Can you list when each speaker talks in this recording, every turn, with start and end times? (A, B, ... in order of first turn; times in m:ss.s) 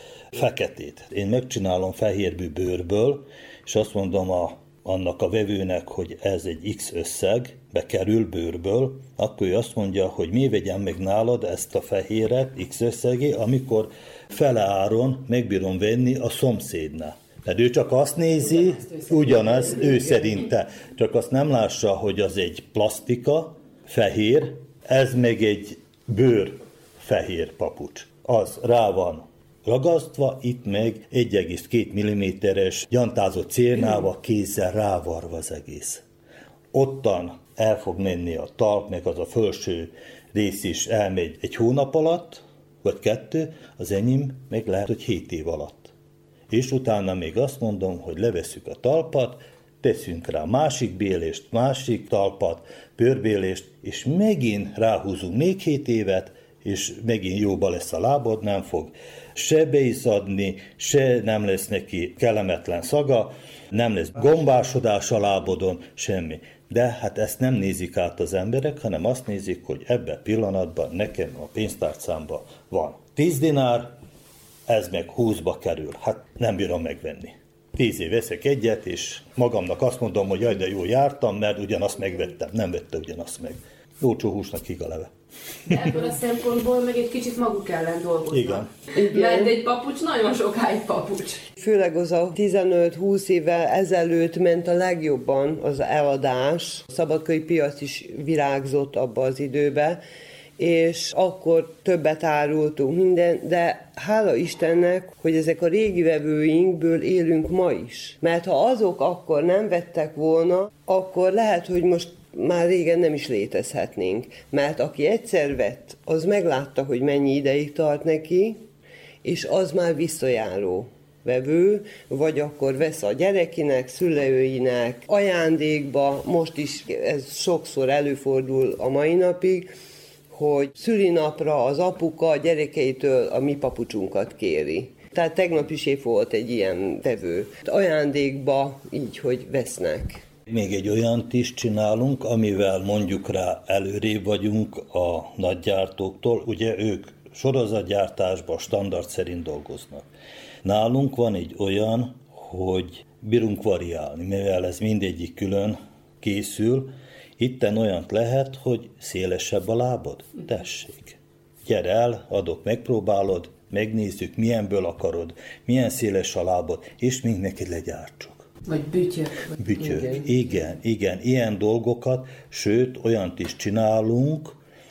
0:00.3-0:36.0 A
0:18.8-0:20.5 B
0:36.7-0:45.9 A
0:46.5-1:13.9 A
1:14.7-1:25.1 A
1:25.7-1:31.4 C
1:28.3-1:28.7 A
1:28.9-1:29.5 B
1:31.6-1:40.0 B
1:40.6-1:58.6 B
1:59.2-2:09.7 B
2:10.3-2:20.2 B
2:20.5-2:30.0 A
2:30.6-2:48.5 A
2:48.7-2:49.3 C
2:49.6-2:54.6 A